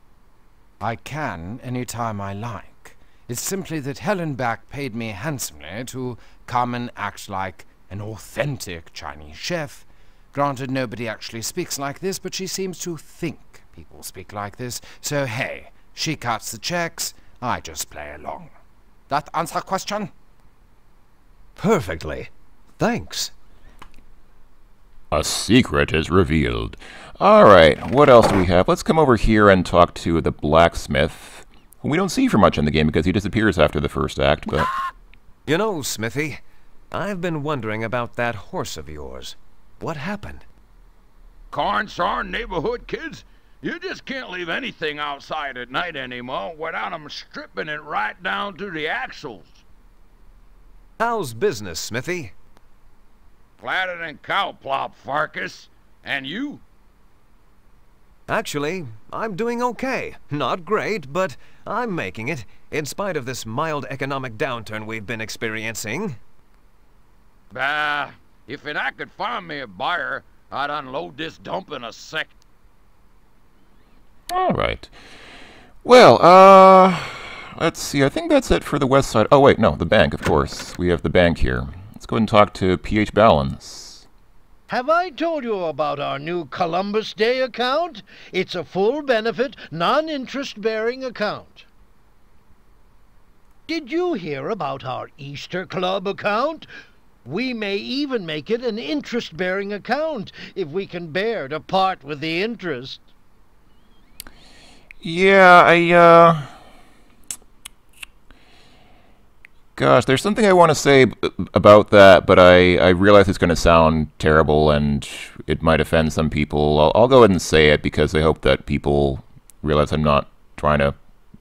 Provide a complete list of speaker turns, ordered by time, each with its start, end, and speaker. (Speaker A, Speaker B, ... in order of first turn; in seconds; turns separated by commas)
Speaker A: 0.8-18.5, Speaker A: 19.1-20.1, Speaker B: 21.6-23.3, Speaker C: 25.1-34.7, Speaker B: 35.5-36.4, Speaker B: 36.9-40.4, Speaker D: 41.5-49.6, Speaker B: 51.0-52.3, Speaker D: 53.6-56.6, Speaker B: 58.3-66.2, Speaker D: 67.5-72.3, Speaker C: 74.3-74.9, Speaker C: 75.8-84.0, Speaker E: 84.7-91.7, Speaker E: 93.7-96.7, Speaker E: 97.2-103.0, Speaker C: 105.0-106.5, Speaker C: 109.8-120.9